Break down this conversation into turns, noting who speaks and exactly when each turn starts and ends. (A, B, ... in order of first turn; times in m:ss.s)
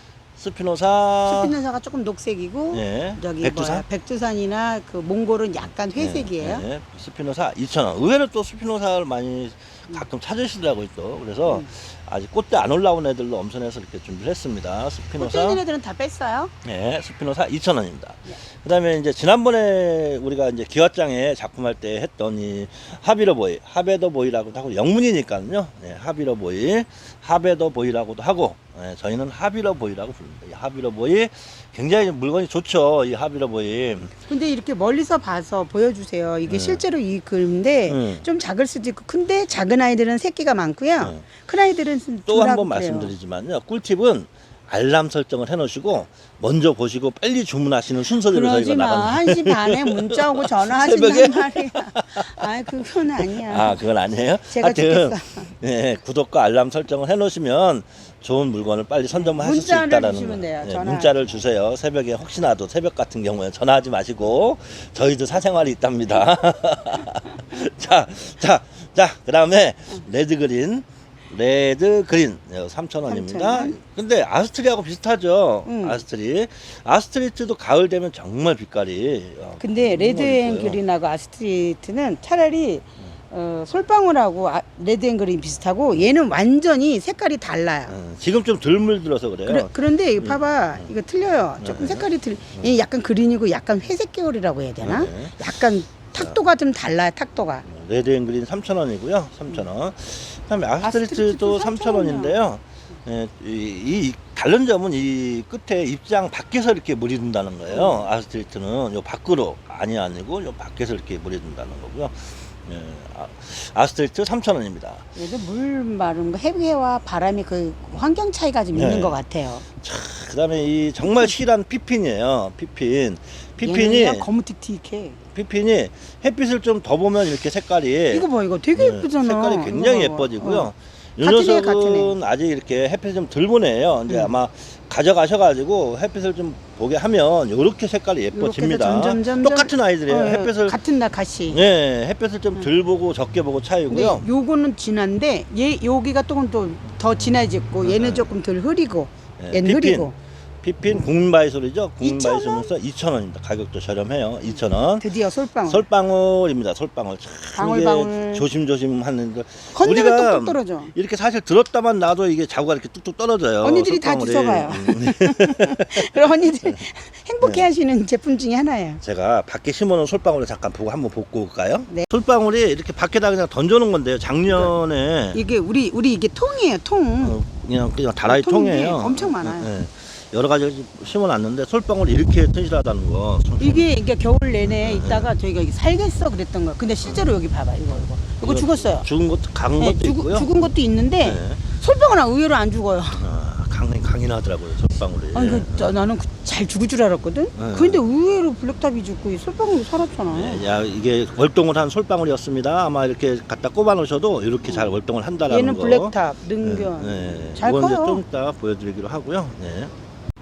0:00.4-0:01.6 A
0:01.2-0:06.6 B
0:02.7-0:03.8 A
0:06.0-0:15.6 A
0:15.2-0:16.5 B
0:16.6-0:34.1 A
0:34.3-0:43.1 B
0:36.5-0:36.8 A
0:37.9-0:38.2 A
0:41.0-0:41.2 A
0:42.3-0:52.5 A
0:48.2-0:53.8 B
0:53.2-1:20.8 A
0:54.5-0:55.5 B
0:59.1-1:01.4 B
1:13.0-1:13.8 B
1:15.6-1:16.0 B
1:19.6-1:28.0 B
1:27.9-1:30.9 A
1:29.4-1:37.6 B
1:31.6-1:32.8 A
1:34.8-1:35.4 A
1:37.6-1:55.0 A
1:40.8-1:42.4 B
1:47.7-1:48.1 B
1:55.1-1:59.6 B
1:58.7-1:59.2 A
1:59.8-2:04.3 A
2:01.0-2:01.4 B
2:03.6-2:05.2 B
2:05.3-2:20.8 A
2:08.1-2:10.7 B
2:11.2-2:12.1 B
2:14.1-2:14.4 B
2:18.3-2:21.6 B
2:21.5-2:24.2 A
2:23.9-2:30.1 B
2:27.8-2:28.3 A
2:29.4-2:35.1 A
2:32.0-2:32.7 B
2:35.0-2:35.8 B
2:35.6-2:46.8 A
2:37.6-2:38.4 B
2:39.7-2:40.9 B
2:43.6-2:49.0 B
2:47.4-2:47.7 A
2:49.0-2:55.4 A
2:55.3-2:57.4 B
2:57.2-3:03.9 A
2:58.2-2:59.7 B
3:03.6-3:09.1 B
3:04.6-3:05.3 A
3:08.4-3:10.7 A
3:09.8-3:13.2 B
3:11.2-3:11.6 A
3:13.1-3:15.9 A
3:15.3-3:20.6 B
3:17.6-3:18.0 A
3:20.3-3:29.9 A
3:24.7-3:24.9 B
3:25.5-3:28.2 B